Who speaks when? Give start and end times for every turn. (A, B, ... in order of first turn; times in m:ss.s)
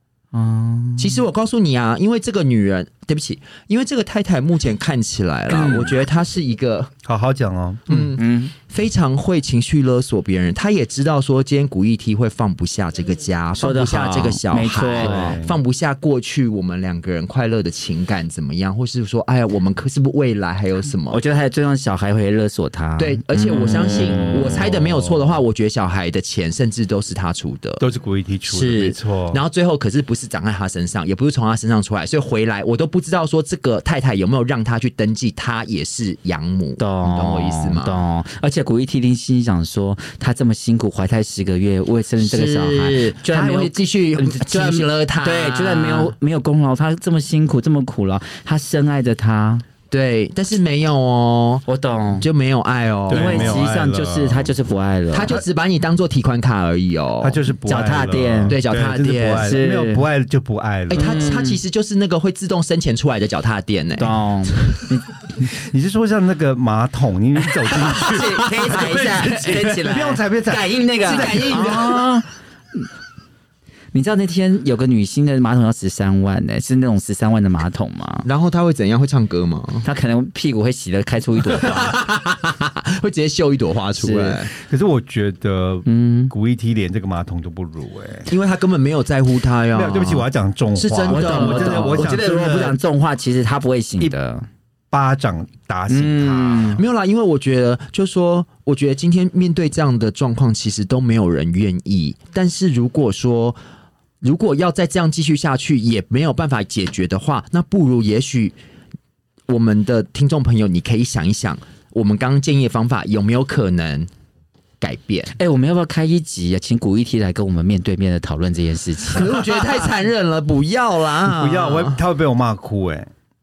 0:00.3-0:01.2 A
0:01.0-0:06.9 B
0:05.5-0:05.9 C
0:07.0-0:08.1 C
0:07.9-0:21.2 B
0:08.2-0:08.5 A
0:13.6-0:15.4 A
0:15.0-0:15.6 C
0:21.1-0:24.6 A
0:23.0-0:27.8 B
0:23.8-0:25.1 C
0:27.8-0:29.4 C
0:28.4-0:38.0 B
0:36.8-0:49.6 A
0:42.2-0:46.1 B
0:49.9-0:51.6 B
0:51.7-0:52.3 A
0:52.2-0:53.6 B
0:53.1-0:54.6 C
0:53.1-0:55.4 A
0:55.1-0:57.4 B
0:57.2-1:01.2 C
0:57.7-0:58.6 A
0:58.5-0:59.6 B
0:59.4-1:00.0 A
1:00.9-1:04.8 B
1:01.0-1:01.6 A
1:04.0-1:05.0 A
1:05.4-1:12.0 C
1:07.9-1:12.9 A
1:08.1-1:09.8 B
1:11.0-1:12.1 B
1:13.9-1:18.3 A
1:18.2-1:19.8 B
1:19.8-1:22.0 A
1:21.4-1:24.5 B
1:24.0-1:24.4 A
1:24.6-1:28.3 C
1:25.9-1:26.3 A
1:28.3-1:32.2 B
1:29.7-1:32.8 C
1:31.1-1:34.5 A
1:34.9-1:36.8 C
1:35.9-1:36.8 A
1:36.8-1:43.6 B
1:44.2-1:48.6 B
1:49.5-1:54.1 B
1:54.8-1:55.3 B
1:55.4-1:59.4 A
1:59.1-2:02.0 B
2:01.2-2:03.1 C